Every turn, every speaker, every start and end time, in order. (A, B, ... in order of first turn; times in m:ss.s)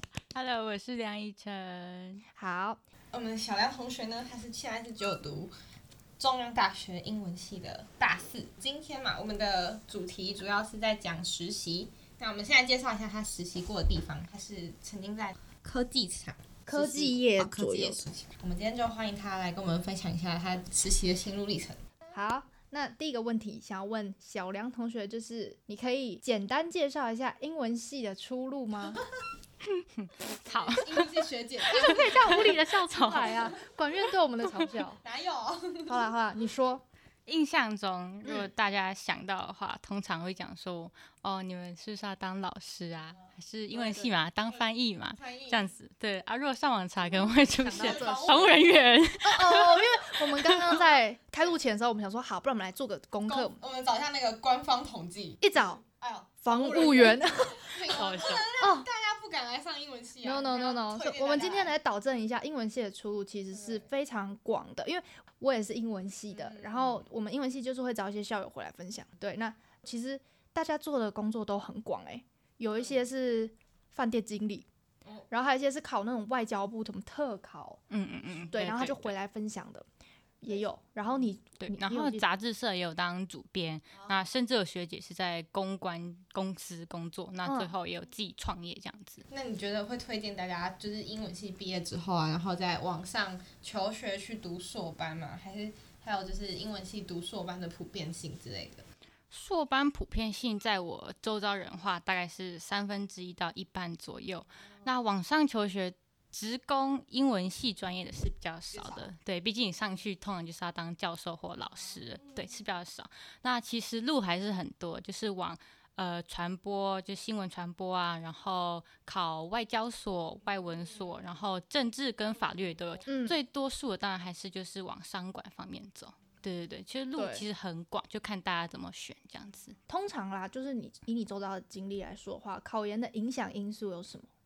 0:00.3-0:02.2 A
0:02.4-0:02.8 B
0:03.1-0:05.5 C
0:06.2-0:21.8 C
0:16.7-0:18.0 B
0:22.1-0:29.0 B
0:29.6-0:33.5 A
0:30.4-0:33.6 C
0:31.8-0:35.0 B
0:35.0-0:36.0 C
0:35.9-0:36.8 B
0:37.2-0:50.8 A
0:43.8-0:44.0 B
0:43.8-0:45.7 C
0:47.5-0:53.6 B
0:47.6-0:49.0 C
0:53.3-1:01.8 C
0:55.4-0:55.8 B
0:56.4-0:57.9 B
0:57.9-0:58.4 A
0:58.6-0:58.9 B
1:00.2-1:14.7 B
1:03.5-1:03.9 C
1:06.3-1:07.1 C
1:15.3-1:17.8 B
1:17.9-1:19.1 A
1:18.5-1:19.8 B
1:20.4-1:22.3 B
1:21.6-1:29.2 A
1:27.4-1:27.7 B
1:29.3-1:38.8 C
1:39.3-2:09.8 A
1:48.7-1:49.1 C
1:52.1-1:52.5 C
2:00.6-2:01.1 C
2:02.5-2:03.0 C
2:03.1-2:03.4 B
2:07.1-2:07.4 B
2:09.9-2:14.3 B